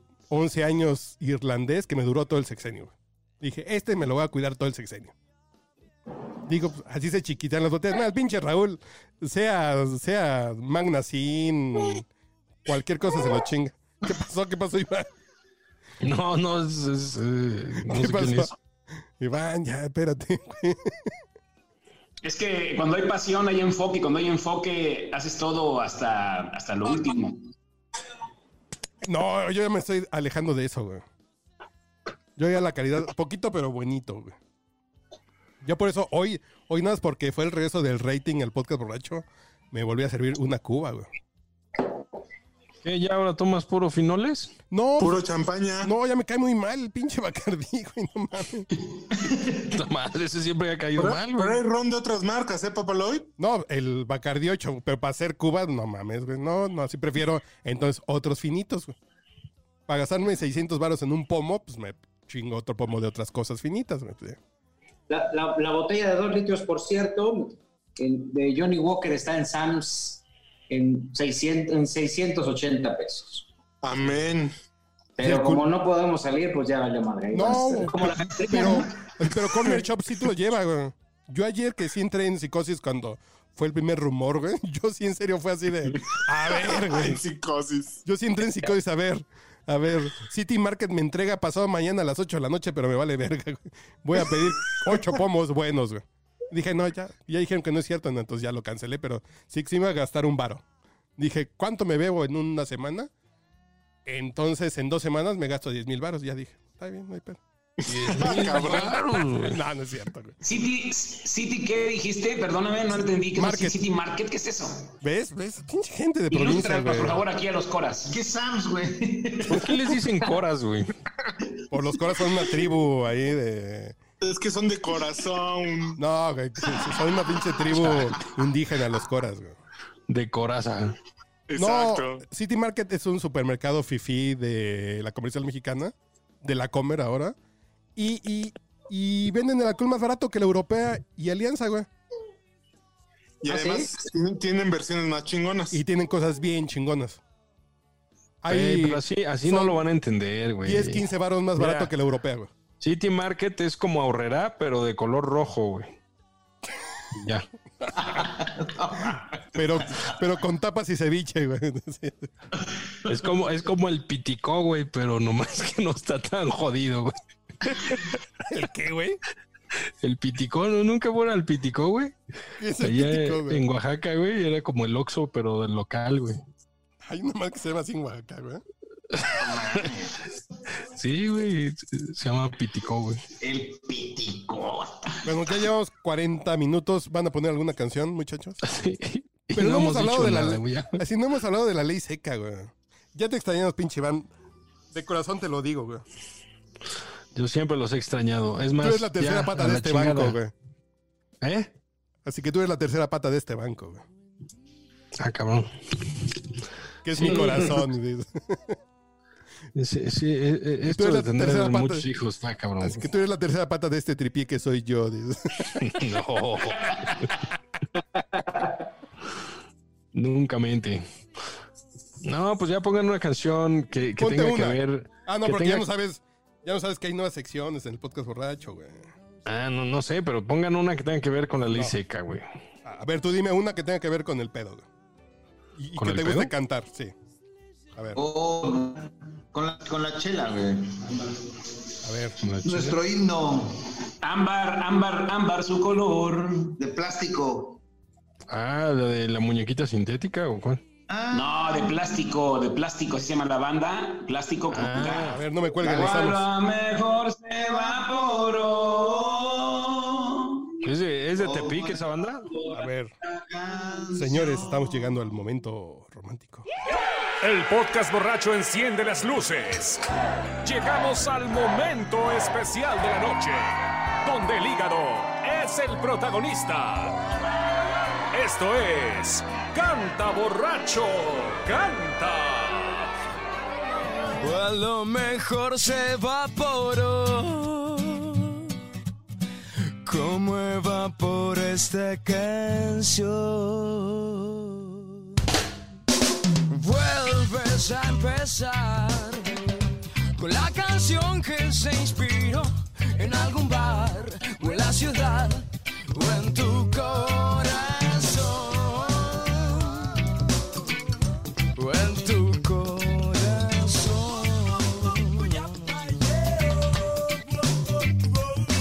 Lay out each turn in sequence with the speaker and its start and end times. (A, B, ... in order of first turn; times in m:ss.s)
0:00.3-0:05.1 A
0:06.5-0:12.1 A
0:12.6-0:15.1 A
0:16.0-0:18.5 B
0:17.9-0:18.5 A
0:19.2-0:21.1 A
0:22.2-0:27.4 C
0:29.0-0:31.0 A
0:32.4-0:34.4 A
0:35.6-0:41.1 A
0:42.8-0:44.6 B
0:44.7-0:45.2 A
0:45.0-0:45.9 D
0:45.8-0:48.7 A
0:49.7-0:51.6 B
0:51.0-0:53.3 D
0:53.4-0:59.0 A
0:59.9-1:04.4 A
1:05.1-1:13.5 E
1:13.8-1:14.5 D
1:15.2-1:18.9 E
1:15.2-1:15.7 A
1:17.3-1:27.2 A
1:26.5-1:28.0 D
1:28.0-1:40.6 A
1:41.2-1:43.1 A
1:44.1-1:47.4 A
1:47.8-1:49.0 D
1:47.9-1:49.6 B
1:48.5-1:50.4 A
1:50.4-1:54.9 C
1:53.4-1:53.8 A
1:55.0-1:57.2 A
1:56.3-1:58.2 C
1:58.1-1:59.7 F
1:59.5-2:00.9 B
2:01.7-2:04.0 A
2:04.2-2:06.0 D
2:06.0-2:09.6 A
2:07.8-2:08.1 B
2:10.1-2:11.0 B
2:11.5-2:12.2 D
2:11.6-2:17.4 A
2:18.0-2:21.9 A
2:23.4-2:25.8 D
2:23.5-2:23.8 E
2:25.7-2:27.2 A
2:28.4-2:29.8 A
2:28.5-2:31.0 B
2:30.6-2:32.5 A
2:31.6-2:31.9 B
2:32.8-2:36.0 B
2:37.2-2:37.4 B
2:38.0-2:40.0 F
2:39.6-2:42.3 A
2:43.1-2:48.1 B
2:48.5-2:49.2 A
2:50.0-2:52.2 B
2:52.6-2:53.6 A
2:52.8-2:56.4 B
2:57.0-2:58.6 A
2:59.2-3:00.2 F
3:00.9-3:03.2 B
3:03.4-3:05.2 F
3:05.2-3:08.6 A
3:08.6-3:11.0 B
3:09.6-3:14.3 A
3:14.9-3:16.0 A
3:17.4-3:20.4 B
3:18.8-3:20.5 A
3:21.4-3:21.7 B
3:22.2-3:24.0 A
3:25.2-3:26.3 B
3:27.0-3:28.8 A
3:27.2-3:27.8 B
3:29.8-3:33.0 B
3:30.9-3:32.1 A
3:32.8-3:36.0 A
3:35.8-3:37.4 B
3:40.1-3:41.0 B
3:42.2-3:45.8 B
3:44.2-3:49.1 A
3:49.5-3:52.5 B
3:52.8-3:54.9 A
3:55.8-3:57.1 A
3:56.0-3:56.5 B
3:58.2-4:01.2 F
4:02.0-4:02.4 A
4:02.4-4:03.0 B
4:02.6-4:03.7 F
4:04.2-4:06.7 C
4:06.8-4:07.8 F
4:08.5-4:10.8 B
4:11.1-4:12.0 F
4:11.3-4:19.8 C
4:14.7-4:15.4 B
4:15.2-4:16.5 A
4:16.0-4:16.3 F
4:17.6-4:20.0 F
4:20.8-4:22.5 B
4:21.3-4:22.7 F
4:22.7-4:23.1 A
4:23.3-4:25.1 F
4:24.2-4:26.7 A
4:27.4-4:30.0 G
4:30.6-4:37.2 G
4:38.3-4:43.1 G
4:44.4-4:48.7 H
4:50.0-4:55.1 H
4:56.7-4:59.6 H
5:00.4-5:10.2 H
5:11.8-5:17.0 H
5:18.0-5:18.4 H